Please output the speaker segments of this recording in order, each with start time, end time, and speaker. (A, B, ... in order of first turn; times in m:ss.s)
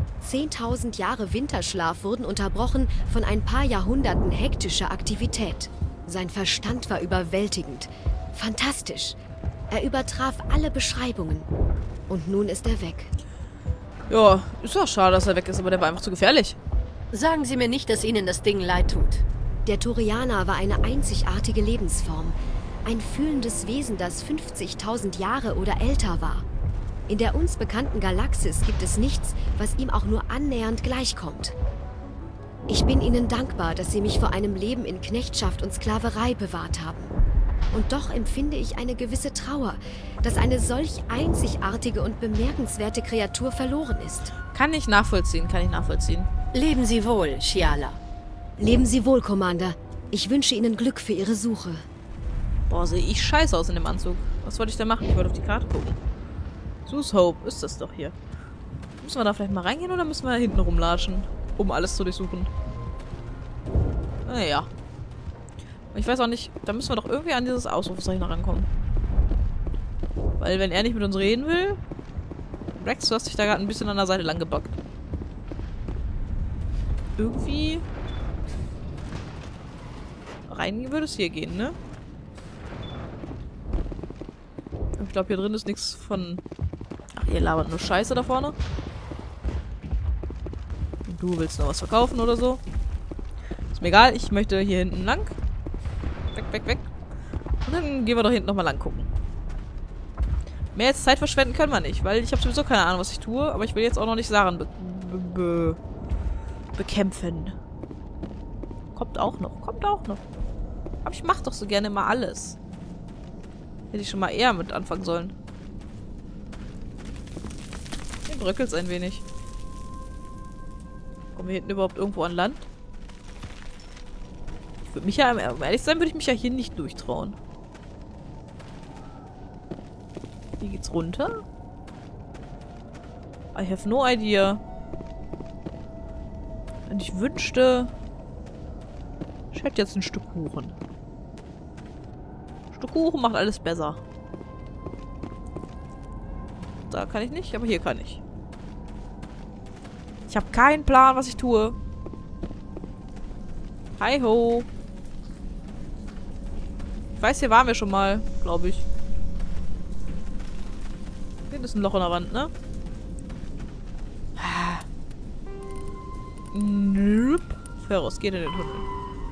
0:00.2-0:09.2 A
0:09.7-0:11.5 A
0:12.1-0:13.1 A
0:14.1-0:16.6 B
0:17.1-0:19.2 C
0:19.6-0:26.5 A
0:27.1-0:31.6 A
0:32.7-0:37.1 A
0:37.7-0:44.3 A
0:44.5-0:46.3 B
0:46.5-0:48.0 C
0:48.6-0:51.8 A
0:52.7-0:56.0 B
0:56.9-0:58.2 B
0:59.0-1:02.5 B
1:04.3-1:04.7 B
1:05.9-1:08.7 B
1:10.4-1:11.8 B
1:12.8-1:14.8 B
1:17.2-1:17.8 B
1:20.5-1:21.8 B
1:25.0-1:26.4 B
1:27.2-1:28.6 B
1:31.1-1:32.6 B
1:33.7-1:35.4 B
1:36.3-1:36.9 B
1:37.6-1:39.1 B
1:40.7-1:45.8 B
1:46.8-1:47.6 B
1:48.9-1:50.2 B
1:51.0-1:52.6 B
1:53.9-1:55.4 B
1:58.3-1:59.2 B
2:01.4-2:02.7 B
2:04.8-2:07.4 B
2:10.6-2:11.4 B
2:13.6-2:14.6 B
2:16.9-2:17.9 B
2:19.5-2:20.8 B
2:22.7-2:24.0 B
2:26.9-2:28.2 B
2:30.3-2:31.8 B
2:34.0-2:34.7 B
2:37.2-2:38.8 B
2:41.5-2:42.5 B
2:44.4-2:44.8 B
2:46.5-2:48.9 B